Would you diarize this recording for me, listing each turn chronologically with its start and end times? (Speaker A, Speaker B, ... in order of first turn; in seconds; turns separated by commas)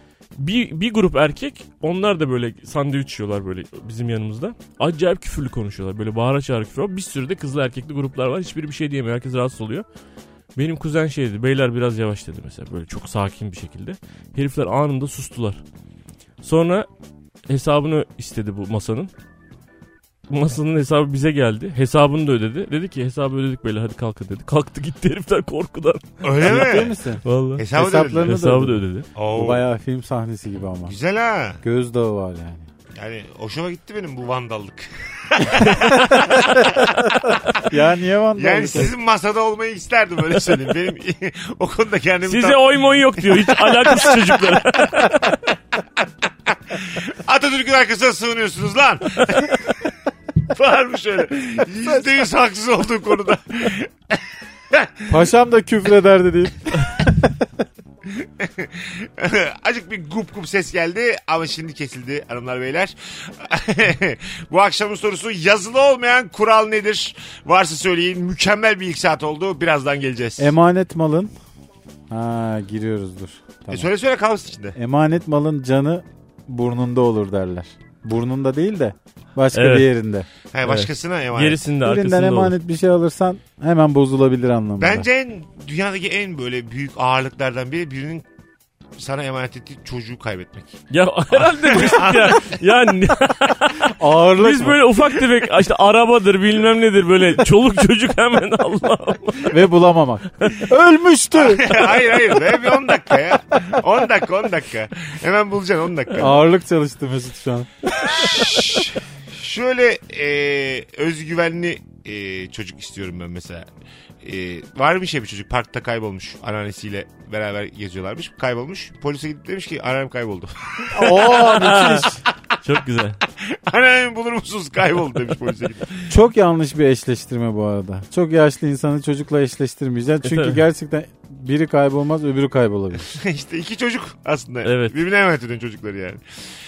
Speaker A: 0.4-9.9, Speaker A: 10.6-15.6, Speaker A: 16.4-16.9, Speaker A: 17.5-19.1, Speaker A: 20.3-29.1, Speaker B: 26.2-27.0, Speaker C: 26.4-30.9, Speaker B: 27.6-28.3, Speaker B: 29.1-29.6, Speaker B: 30.9-31.6, Speaker C: 31.6-32.7, Speaker B: 32.9-37.6, Speaker C: 35.4-38.9, Speaker B: 38.4-45.3, Speaker A: 42.3-45.4, Speaker B: 46.0-55.2, Speaker C: 55.1-57.4, Speaker B: 58.0-70.5, Speaker C: 70.4-71.3, Speaker C: 72.1-73.9, Speaker B: 73.7-74.8, Speaker C: 74.8-80.3, Speaker A: 79.5-79.9, Speaker B: 80.5-81.6, Speaker A: 80.6-82.5, Speaker C: 81.8-85.1, Speaker B: 84.8-88.3, Speaker B: 89.0-90.8, Speaker A: 90.9-99.6, Speaker B: 91.3-92.5, Speaker C: 94.0-94.8, Speaker C: 99.5-101.8, Speaker B: 101.3-106.5, Speaker C: 106.2-108.5, Speaker B: 108.0-113.7, Speaker B: 114.2-121.5, Speaker C: 120.9-122.2, Speaker A: 121.2-122.1, Speaker A: 122.6-123.2, Speaker B: 123.3-126.1, Speaker C: 126.1-133.1, Speaker A: 130.2-130.6, Speaker B: 133.1-136.2, Speaker A: 134.6-134.9